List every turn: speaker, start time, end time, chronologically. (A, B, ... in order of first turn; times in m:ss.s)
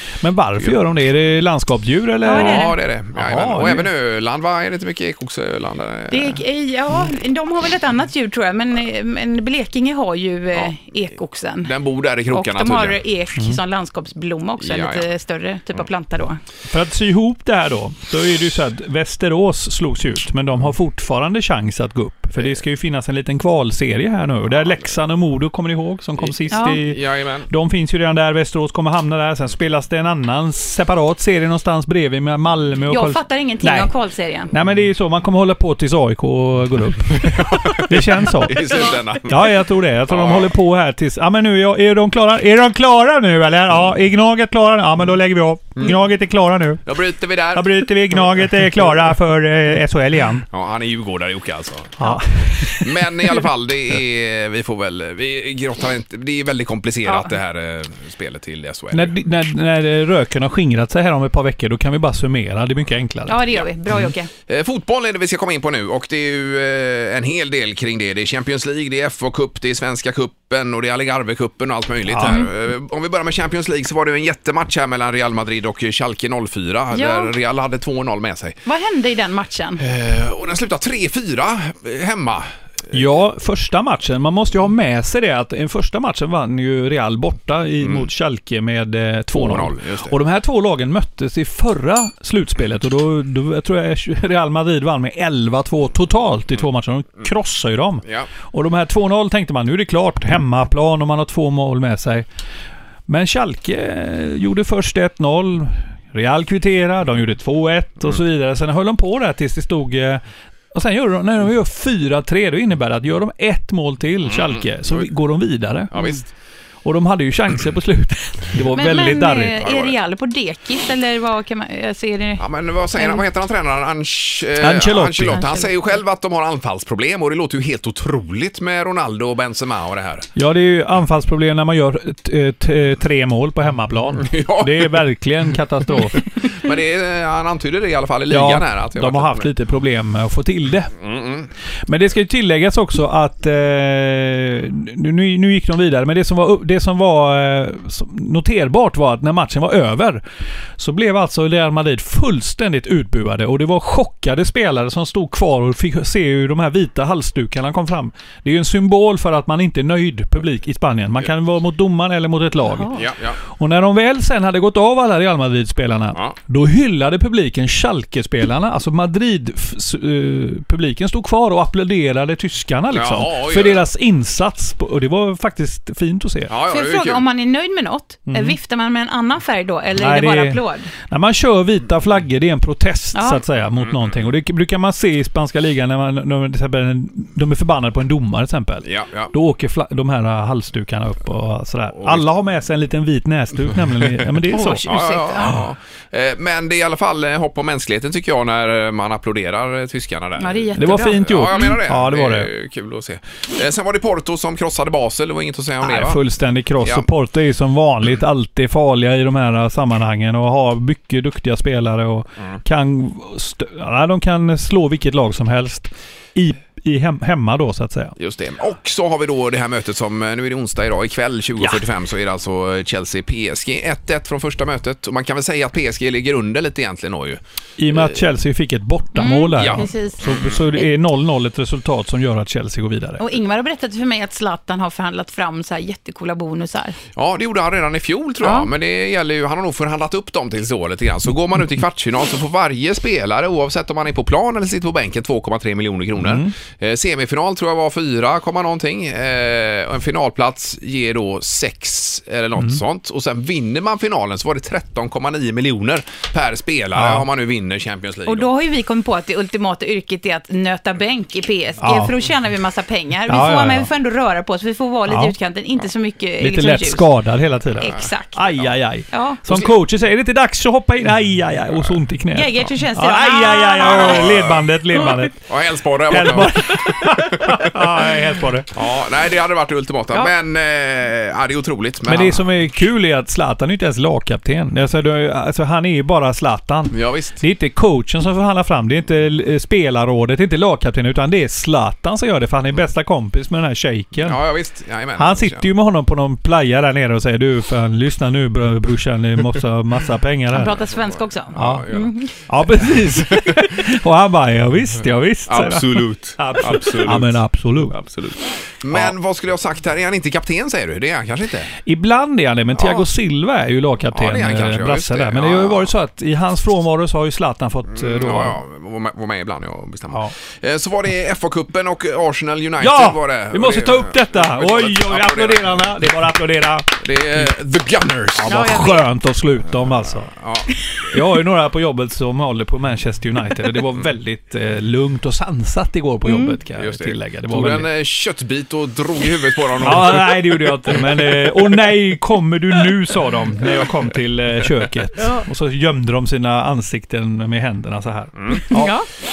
0:00.2-0:03.9 A
0:02.2-0:02.8 B
0:02.3-0:06.4 C
0:06.1-0:11.7 B
0:11.6-0:13.0 C
0:12.3-0:16.4 B
0:14.6-0:15.0 C
0:16.7-0:33.9 A
0:26.2-0:27.5 C
0:26.5-0:26.8 B
0:32.9-0:34.5 B
0:34.5-0:38.7 A
0:37.2-0:39.5 C
0:39.2-0:46.8 A
0:40.1-0:40.5 C
0:46.8-0:48.5 C
0:47.5-0:50.5 A
0:50.5-0:52.0 C
0:52.0-0:52.9 A
0:52.8-0:59.1 C
0:57.1-0:57.3 B
0:58.9-1:03.4 A
1:03.3-1:04.3 B
1:04.5-1:18.6 C
1:12.1-1:12.4 A
1:16.9-1:17.3 B
1:18.6-1:19.8 B
1:19.8-1:22.5 C
1:22.9-1:42.2 A
1:27.8-1:28.1 C
1:29.3-1:30.2 C
1:43.1-1:50.2 A
1:50.7-1:55.9 A
1:54.2-1:55.0 C
1:55.9-1:56.2 C
1:56.8-1:59.6 A
1:58.7-2:02.4 B
1:59.6-1:59.9 C
2:02.4-2:10.3 C
2:03.0-2:03.2 B
2:04.6-2:05.4 A
2:05.3-2:05.7 B
2:10.4-2:16.3 A
2:14.2-2:15.0 C
2:16.4-2:19.5 C
2:18.3-2:20.9 A
2:21.0-2:21.5 C
2:21.9-2:30.2 A
2:30.8-2:42.9 A
2:42.9-2:43.4 C
2:43.5-2:56.5 A
2:52.9-2:53.8 C
2:56.5-2:57.2 C
2:56.7-3:00.9 B
2:58.3-2:58.6 A
3:00.0-3:14.9 A
3:03.1-3:03.4 B
3:03.8-3:04.1 C
3:08.8-3:09.3 C
3:14.5-3:15.6 B
3:14.5-3:26.2 C
3:20.4-3:21.2 B
3:20.8-3:22.5 A
3:25.8-3:38.1 A
3:26.8-3:27.1 C
3:38.2-3:47.4 C
3:47.8-3:53.2 A
3:47.9-3:48.2 C
3:49.2-3:50.9 B
3:49.6-3:50.6 C
3:53.2-3:57.0 B
3:57.2-4:18.5 C
3:58.4-3:58.7 B
4:06.2-4:06.5 A
4:16.9-4:17.2 A
4:18.2-4:27.1 B
4:21.8-4:22.1 A
4:23.3-4:23.9 A
4:25.1-4:25.3 A
4:26.4-4:35.4 A
4:27.8-4:28.5 B
4:27.8-4:28.1 C
4:29.1-4:29.4 B
4:29.5-4:29.7 C
4:32.3-4:34.3 B
4:33.8-4:34.6 C
4:35.4-4:37.6 C
4:36.1-4:38.7 A
4:38.7-4:42.4 C
4:42.1-4:54.4 A
4:46.9-4:47.4 C
4:54.2-4:55.7 C
4:55.2-5:00.8 A
5:00.5-5:02.3 B
5:00.9-5:02.1 C
5:01.6-5:08.0 A
5:03.3-5:03.6 C
5:05.5-5:11.7 C
5:11.8-5:18.6 A
5:12.8-5:13.0 C
5:14.1-5:15.9 C
5:17.9-5:25.9 C
5:22.8-5:27.5 A
5:27.0-5:28.9 C
5:28.4-5:30.3 A
5:28.4-5:29.0 B
5:30.2-5:30.8 C
5:31.1-5:37.9 A
5:36.2-5:36.6 B
5:36.8-5:41.5 C
5:39.8-5:48.9 A
5:45.2-5:45.4 B
5:48.4-5:48.6 C
5:48.5-5:49.1 B